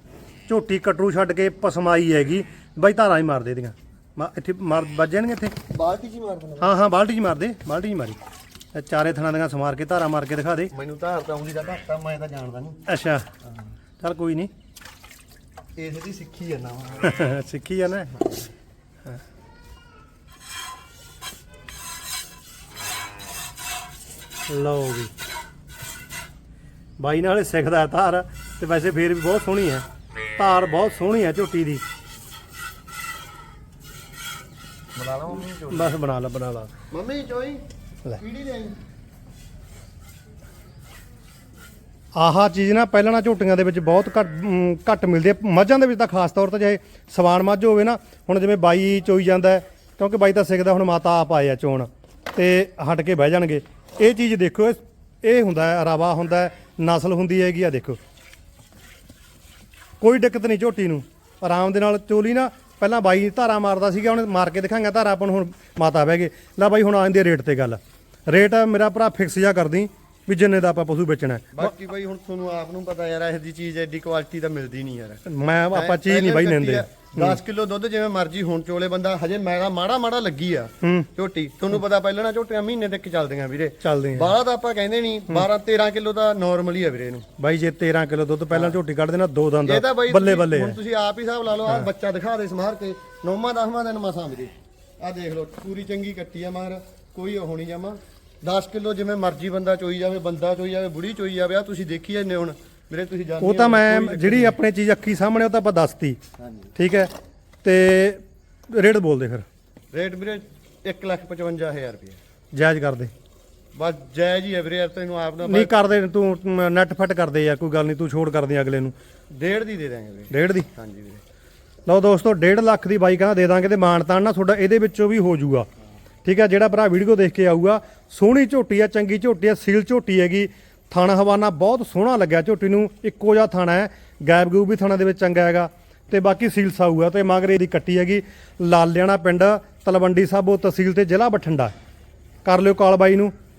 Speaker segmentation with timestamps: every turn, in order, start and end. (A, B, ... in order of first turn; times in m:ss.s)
0:00.5-0:05.6 A
0:05.7-0:06.8 B
0:06.6-0:08.2 A
0:08.7-0:10.7 A
0:10.7-0:12.8 B
0:12.9-0:13.2 A
0:14.0-0:14.5 A
0:15.8-0:17.3 B
0:17.0-0:18.2 A
0:24.5-0:25.1 A
0:27.0-0:31.8 A
0:35.0-0:36.0 B
0:35.7-0:36.7 A
0:36.9-0:37.6 B
0:38.2-0:38.8 B
0:42.1-0:58.0 A
1:00.0-1:11.7 A
1:11.5-1:27.3 B
1:15.3-1:17.4 A
1:20.8-1:21.1 A
1:23.8-1:24.4 A
1:27.4-1:30.8 A
1:28.5-1:28.8 B
1:29.7-1:44.6 B
1:43.4-1:46.2 A
1:46.4-1:46.7 B
1:46.8-1:47.1 A
1:47.6-1:49.5 A
1:49.9-1:52.2 B
1:52.5-1:53.1 A
1:53.8-1:55.9 B
1:55.4-1:58.9 A
1:59.4-2:01.2 B
2:00.3-2:00.7 A
2:01.9-2:05.7 A
2:06.2-2:21.7 A
2:22.4-2:23.3 A